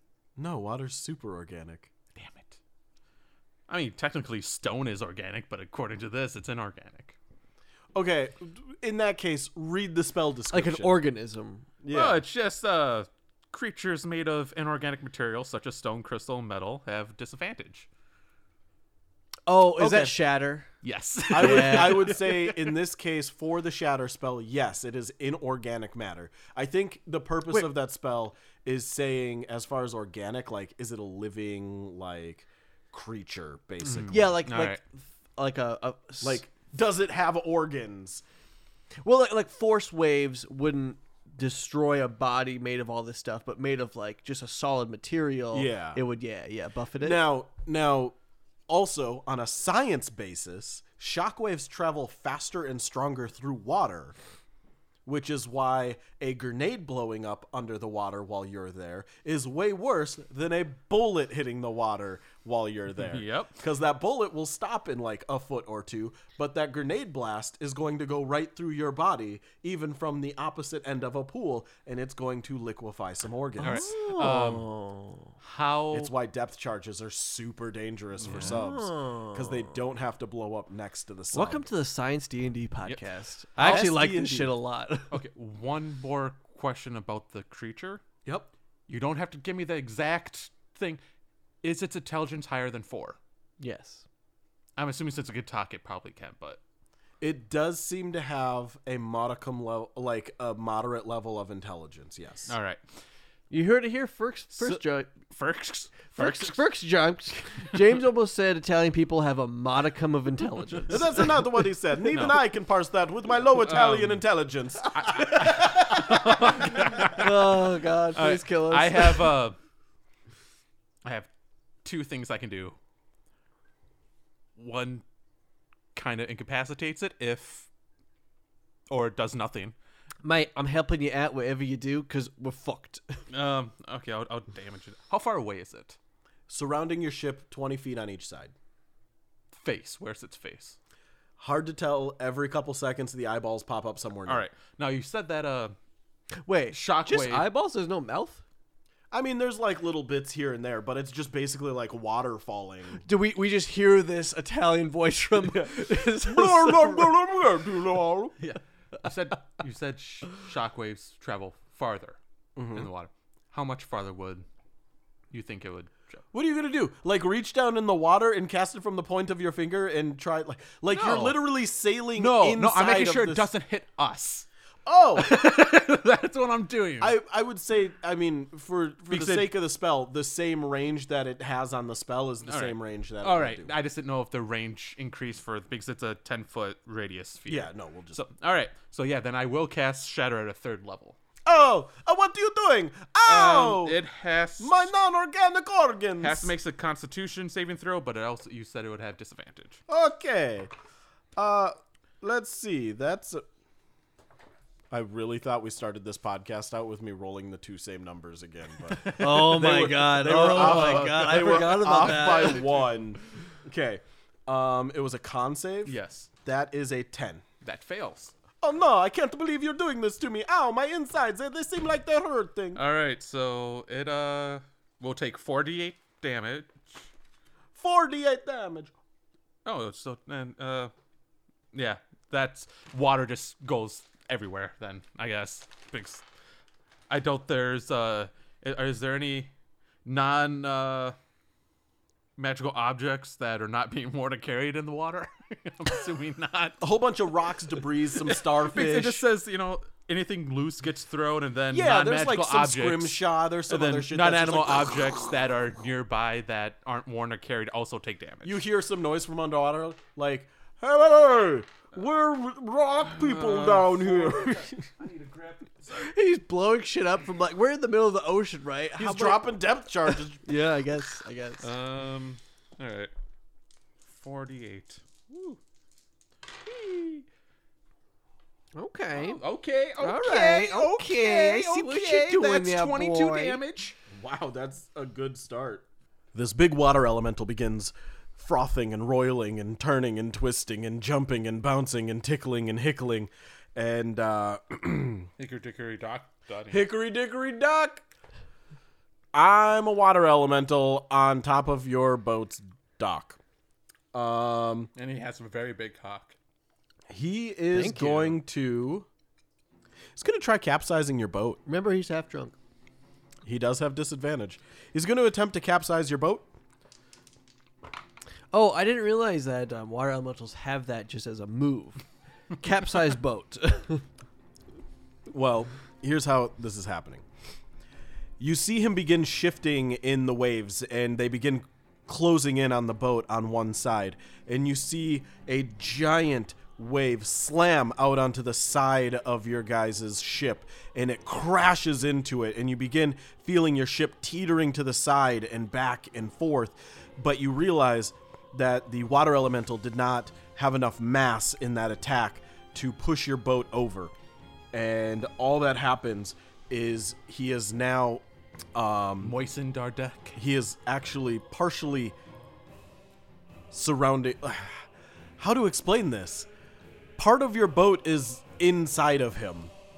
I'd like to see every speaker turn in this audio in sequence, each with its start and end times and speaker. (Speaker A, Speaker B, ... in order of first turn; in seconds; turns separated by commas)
Speaker A: 0.4-1.9, Speaker B: 2.1-2.6, Speaker B: 3.7-7.2, Speaker A: 7.9-11.0, Speaker C: 10.5-11.7, Speaker A: 11.8-12.2, Speaker B: 11.9-17.9, Speaker C: 19.5-20.7, Speaker A: 19.8-20.1, Speaker B: 20.8-22.7, Speaker A: 21.3-34.3, Speaker C: 21.3-22.2, Speaker B: 33.8-34.8, Speaker C: 34.1-36.4, Speaker A: 36.2-38.2, Speaker C: 39.0-47.2, Speaker A: 45.5-46.0, Speaker A: 47.0-48.2, Speaker A: 48.7-54.1, Speaker A: 55.1-73.9, Speaker B: 63.0-63.6, Speaker C: 73.6-75.3, Speaker B: 73.6-74.7, Speaker B: 75.4-76.1, Speaker A: 75.9-81.7, Speaker B: 78.2-78.6, Speaker C: 78.3-79.7, Speaker C: 81.3-85.2, Speaker A: 83.6-84.5, Speaker B: 83.6-84.0, Speaker B: 85.1-88.0, Speaker A: 88.2-88.5, Speaker B: 88.9-91.0, Speaker B: 91.6-93.2, Speaker C: 93.6-94.0, Speaker B: 94.8-96.6, Speaker A: 97.2-102.5, Speaker B: 102.5-102.8, Speaker C: 103.5-105.1, Speaker B: 104.5-106.6, Speaker C: 106.2-111.5, Speaker A: 110.9-116.5, Speaker B: 112.1-112.4, Speaker B: 113.6-114.2, Speaker B: 114.9-119.6, Speaker C: 116.9-119.3, Speaker B: 121.0-121.3, Speaker B: 121.8-122.8, Speaker B: 124.6-125.0, Speaker B: 125.9-127.7, Speaker B: 128.9-129.8, Speaker C: 130.2-133.2, Speaker B: 133.3-136.0, Speaker A: 136.5-138.5, Speaker B: 139.5-140.8, Speaker A: 141.4-144.4, Speaker B: 144.3-145.7, Speaker C: 146.4-148.4, Speaker B: 146.7-147.5, Speaker A: 149.1-153.1, Speaker C: 153.0-157.1, Speaker A: 155.4-158.4, Speaker B: 158.4-162.2, Speaker A: 162.6-162.9, Speaker B: 162.7-164.4, Speaker B: 165.3-166.2, Speaker A: 166.3-173.5, Speaker B: 170.9-171.4, Speaker B: 172.2-174.5, Speaker A: 174.9-175.5, Speaker B: 175.2-177.2, Speaker A: 177.0-183.7, Speaker B: 179.1-179.5, Speaker B: 182.5-191.2, Speaker A: 187.5-188.2, Speaker A: 191.4-194.0, Speaker B: 193.2-194.9, Speaker A: 194.6-196.5, Speaker B: 196.2-199.8, Speaker A: 199.9-200.7, Speaker A: 201.4-203.4, Speaker A: 204.9-217.4, Speaker B: 208.9-212.9, Speaker C: 209.1-212.7, Speaker B: 215.9-216.3, Speaker B: 217.6-218.3, Speaker A: 218.6-222.8, Speaker B: 222.8-227.0, Speaker A: 227.8-228.9, Speaker B: 229.7-230.9, Speaker B: 231.7-236.2, Speaker B: 237.1-239.5, Speaker B: 240.1-241.2, Speaker B: 242.4-246.8, Speaker A: 246.8-249.2, Speaker B: 248.2-258.6, Speaker A: 251.7-255.0, Speaker A: 258.4-264.9, Speaker B: 263.1-266.1, Speaker C: 265.9-269.6, Speaker A: 269.0-270.5, Speaker C: 270.4-271.6, Speaker B: 271.6-273.1, Speaker B: 274.1-275.6, Speaker B: 276.6-277.2, Speaker C: 278.8-279.4, Speaker B: 279.1-284.0, Speaker C: 280.0-283.6, Speaker A: 284.1-295.3, Speaker B: 295.4-296.9, Speaker A: 296.7-298.0, Speaker A: 299.3-303.4, Speaker A: 304.1-304.9, Speaker B: 305.0-306.4, Speaker A: 307.1-309.1, Speaker C: 307.7-308.4, Speaker A: 310.2-311.6, Speaker C: 311.7-312.6, Speaker A: 313.4-316.5, Speaker C: 318.5-322.0, Speaker C: 322.6-324.1, Speaker A: 325.3-327.2, Speaker A: 328.4-354.1, Speaker A: 354.7-359.4, Speaker B: 359.2-360.4, Speaker A: 360.4-362.2, Speaker A: 363.7-364.9, Speaker A: 365.4-366.5, Speaker A: 367.2-369.7